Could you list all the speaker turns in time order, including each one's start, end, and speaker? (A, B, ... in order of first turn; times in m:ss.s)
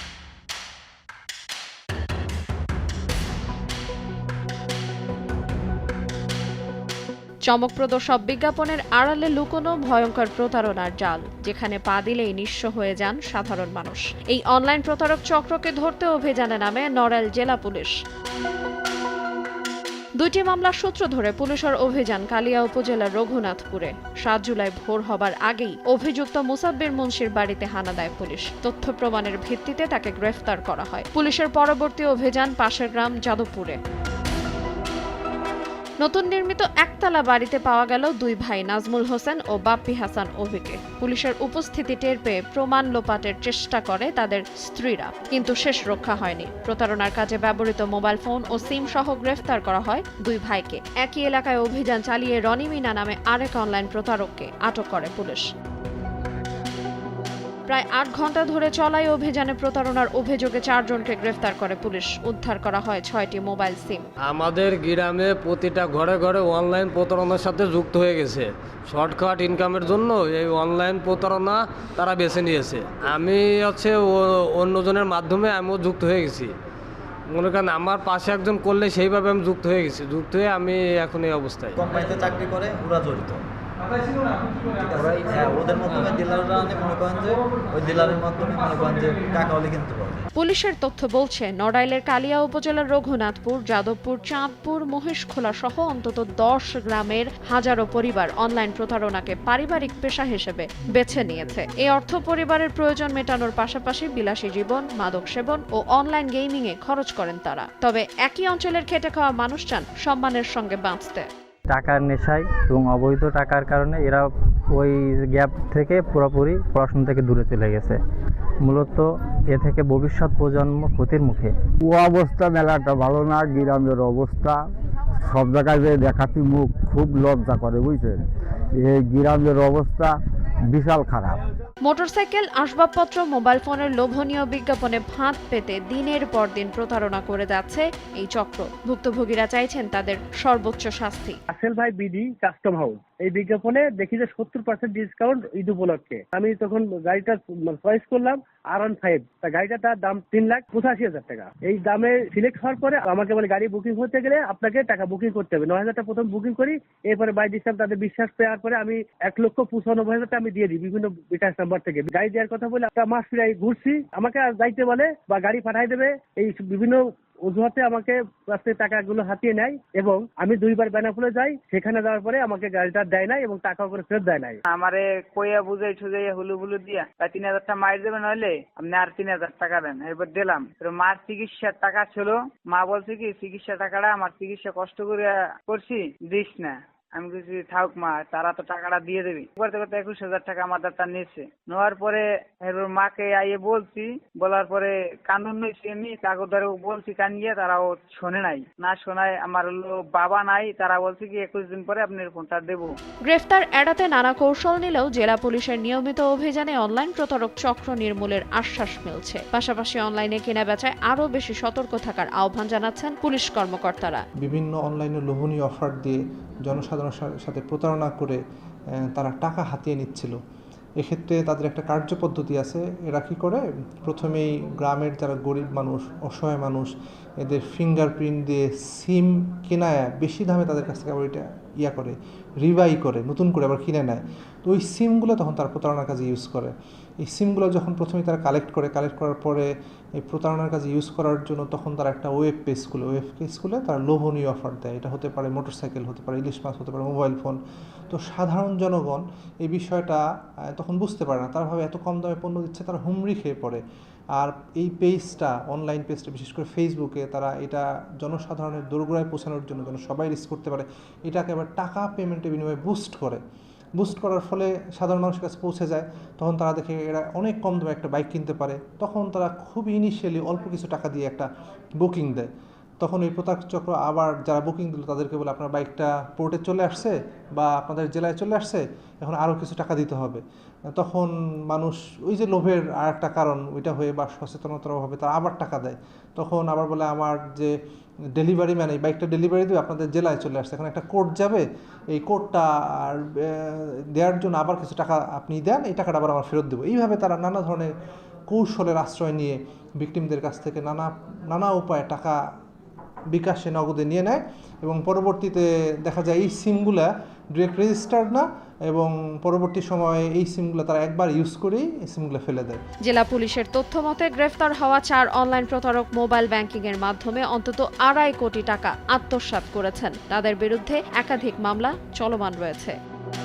0:07.5-0:17.9 A
0:20.2-0:33.8 A
0:36.0-0:55.4 A
0:57.7-1:04.1 A
1:04.3-1:16.5 B
1:17.3-1:21.8 B
1:21.8-1:23.4 C
1:24.3-1:30.3 C
1:30.4-1:51.2 A
1:51.7-1:58.0 D
1:58.6-2:01.5 D
2:01.8-2:11.4 E
2:11.8-2:21.4 A
2:21.5-2:54.6 F
2:54.7-3:22.9 G
3:23.3-3:34.2 A
3:34.4-3:38.4 H
3:39.0-3:40.4 H
3:41.0-4:07.6 H
4:08.1-4:13.8 H
4:14.4-4:23.4 H
4:24.0-4:32.5 H
4:33.0-4:40.4 H
4:41.0-4:47.7 H
4:48.4-4:57.9 H
4:58.5-5:02.4 H
5:03.3-5:12.8 H
5:13.0-5:23.0 A